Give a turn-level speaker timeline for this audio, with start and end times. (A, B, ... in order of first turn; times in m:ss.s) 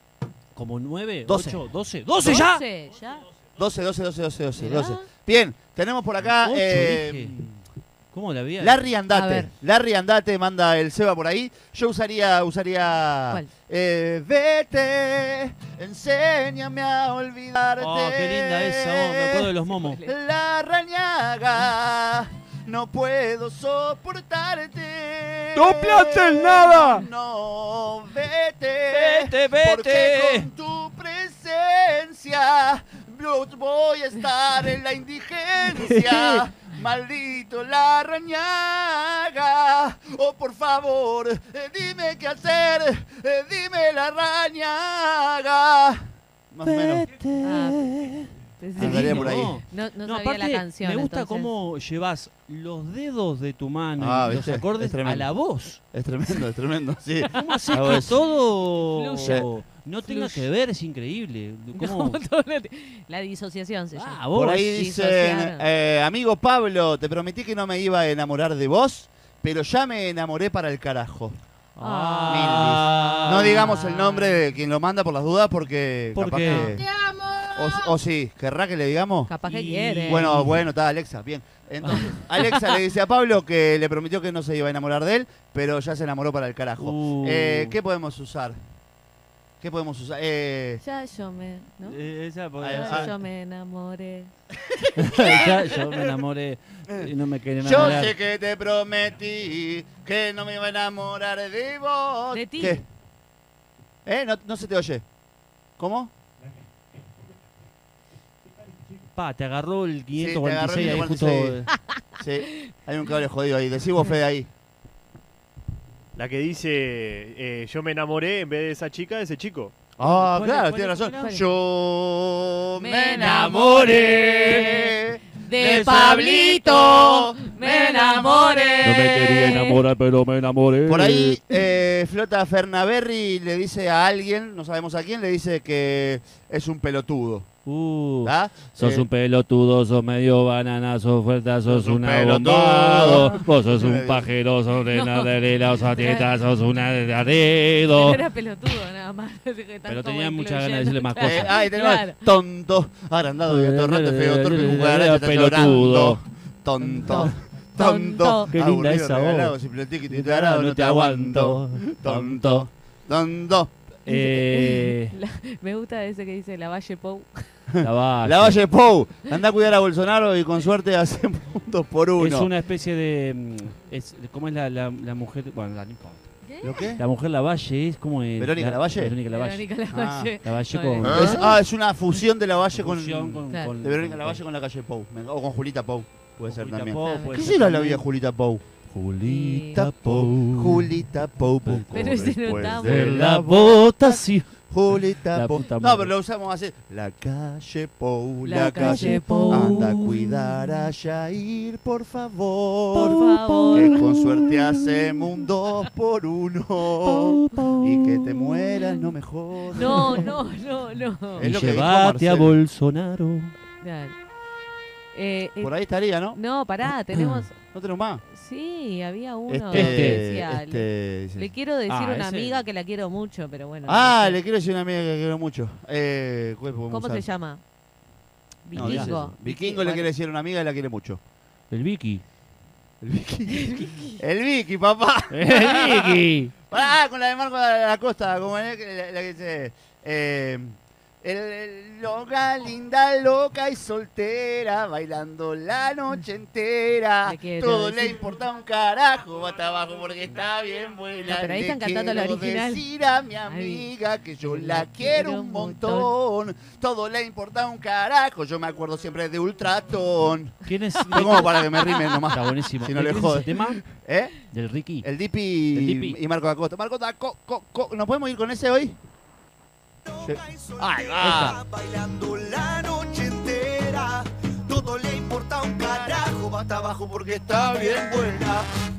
0:00.6-0:02.6 A
0:01.3-0:01.6 B
0:02.2-0:03.3 C
0:03.6-0:07.5 B
0:04.6-0:05.0 C
0:06.4-0:07.4 A
0:08.1-0:08.8 A
0:08.6-0:19.5 B
0:09.1-0:09.5 C
0:17.8-0:20.0 A
0:19.7-0:20.1 C
0:20.0-0:47.1 B
0:25.5-0:27.1 A
0:28.9-0:30.5 A
0:35.8-0:36.4 A
0:46.6-0:55.8 A
0:47.4-0:47.8 C
0:48.6-0:51.5 C
0:48.8-0:49.6 B
0:54.0-0:58.2 B
0:57.3-1:02.2 A
0:57.5-0:57.9 C
0:58.8-0:59.5 C
1:00.0-1:00.5 C
1:01.8-1:05.7 C
1:03.9-1:04.6 A
1:04.3-1:11.3 B
1:11.8-1:13.8 A
1:11.8-1:14.4 C
1:12.3-1:16.9 B
1:16.1-1:16.8 A
1:17.5-1:19.3 B
1:19.3-1:20.4 C
1:19.4-1:20.6 A
1:20.1-1:28.6 B
1:26.8-1:27.8 A
1:29.6-1:30.8 B
1:30.8-1:32.0 C
1:31.8-1:33.1 A
1:32.6-1:33.1 B
1:32.7-1:34.3 C
1:35.0-1:38.1 A
1:35.3-1:36.0 B
1:37.6-1:42.8 B
1:37.7-1:38.1 C
1:42.3-1:42.8 C
1:44.0-1:45.0 B
1:45.8-1:46.1 B
1:49.1-1:51.7 A
1:50.2-1:51.6 B
1:52.2-1:54.5 B
1:56.2-1:59.7 D
2:00.0-2:08.6 B
2:00.2-2:01.5 C
2:02.8-2:09.8 C
2:03.2-2:04.8 A
2:08.8-2:11.4 A
2:10.9-2:17.5 B
2:17.6-2:28.2 A
2:18.2-2:19.1 B
2:21.6-2:24.3 B
2:24.9-2:26.3 C
2:27.9-2:32.2 C
2:29.8-2:31.6 A
2:31.2-2:43.7 B
2:33.4-2:36.2 A
2:36.8-2:38.5 C
2:38.5-2:39.6 A
2:40.1-2:42.6 A
2:44.0-2:45.1 A
2:44.1-2:47.6 C
2:47.7-2:52.5 B
2:47.8-2:48.6 A
2:52.2-2:56.2 A
2:56.4-2:56.9 C
2:56.6-2:57.0 B
2:57.0-2:59.6 A
2:58.4-2:59.2 B
2:59.3-3:01.5 C
2:59.9-3:00.3 B
3:00.4-3:01.5 A
3:01.0-3:08.6 B
3:02.7-3:04.4 A
3:06.4-3:08.0 A
3:07.0-3:07.4 C
3:08.9-3:10.9 A
3:09.2-3:09.8 C
3:09.7-3:30.3 B
3:11.6-3:14.6 A
3:11.9-3:13.2 C
3:15.3-3:16.1 A
3:18.4-3:19.9 C
3:18.6-3:20.4 A
3:22.9-3:25.2 A
3:23.0-3:24.0 C
3:27.0-3:29.0 A
3:29.7-3:31.5 C
3:31.4-3:32.6 B
3:31.4-3:33.5 A
3:33.8-3:34.1 C
3:35.1-3:35.8 C
3:35.6-3:36.4 B
3:36.3-3:37.6 C
3:37.2-3:37.4 A
3:37.7-3:38.2 B
3:38.3-3:44.4 C
3:39.5-3:41.5 B
3:39.7-3:40.2 A
3:41.9-3:42.6 A
3:43.8-3:47.2 B
3:46.9-3:47.6 C
3:48.6-3:50.1 C
3:48.7-3:51.2 B
3:48.7-3:49.1 A
3:51.7-3:52.2 A
3:53.0-4:20.5 B
3:53.6-3:54.2 C
3:55.3-3:56.5 A
4:07.2-4:08.2 C
4:11.3-4:12.8 C
4:13.4-4:13.9 C
4:14.4-4:16.1 C
4:20.6-4:21.6 A
4:21.1-4:24.3 B
4:21.1-4:22.2 C
4:22.3-4:23.8 A
4:24.5-4:25.1 A
4:25.0-4:29.0 B
4:25.7-4:26.2 A
4:30.2-4:30.5 B
4:30.2-4:38.6 E
4:30.8-4:31.6 A
4:31.2-4:31.6 B
4:35.8-4:36.2 B
4:37.2-4:38.5 B